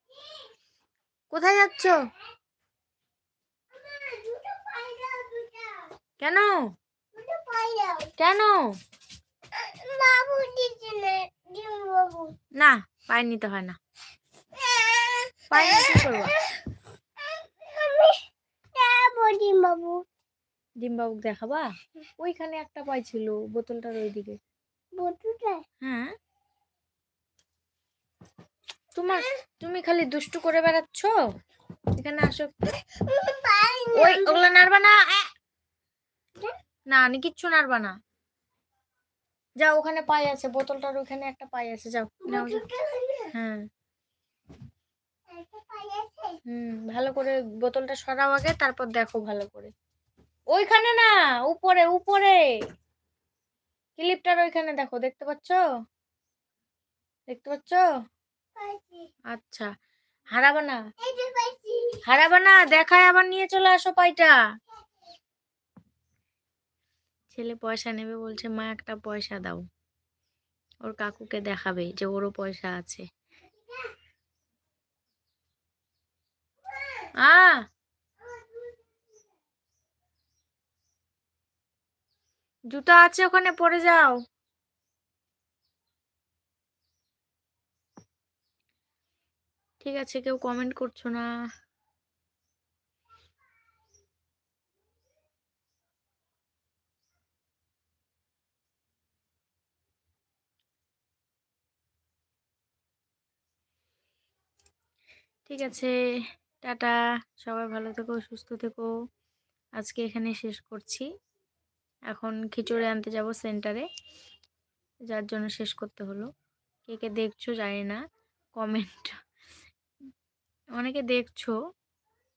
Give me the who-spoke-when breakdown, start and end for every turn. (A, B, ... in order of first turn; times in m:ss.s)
0:01.3-0:02.0 A
0:03.7-0:06.0 B
0:06.2-0:06.6 A
0:07.1-0:08.1 B
0:08.2-0:08.7 A
0:09.5-0:12.4 B
0:12.6-0:13.8 A
0:14.5-0:16.6 B
0:15.5-0:16.4 A
0:17.2-0:20.0 B
0:20.8-0:21.7 A
0:22.2-0:24.4 A
0:24.9-0:25.6 B
0:25.8-0:26.1 A
0:29.0-0:31.2 A
0:32.0-0:32.7 A
0:33.0-0:34.4 B
0:34.0-0:35.3 A
0:36.9-0:38.0 A
0:39.6-0:42.6 A
0:42.2-0:43.3 B
0:43.3-0:43.6 A
0:45.3-0:46.4 B
0:46.5-0:49.7 A
0:50.5-0:52.5 A
0:54.0-0:55.6 A
0:57.3-0:57.9 A
0:58.6-0:59.1 B
0:59.3-0:59.7 A
1:00.3-1:00.8 A
1:01.0-1:02.0 B
1:02.0-1:04.4 A
1:07.3-1:09.6 A
1:10.8-1:13.1 A
1:17.2-1:17.6 A
1:18.4-1:18.8 B
1:22.7-1:24.2 A
1:29.8-1:31.3 A
1:45.5-1:45.9 A
1:46.6-1:48.9 A
1:49.8-1:51.1 A
1:52.1-1:53.9 A
1:55.1-1:56.3 A
1:56.9-1:58.0 A
1:58.6-1:59.2 A
2:00.8-2:01.6 A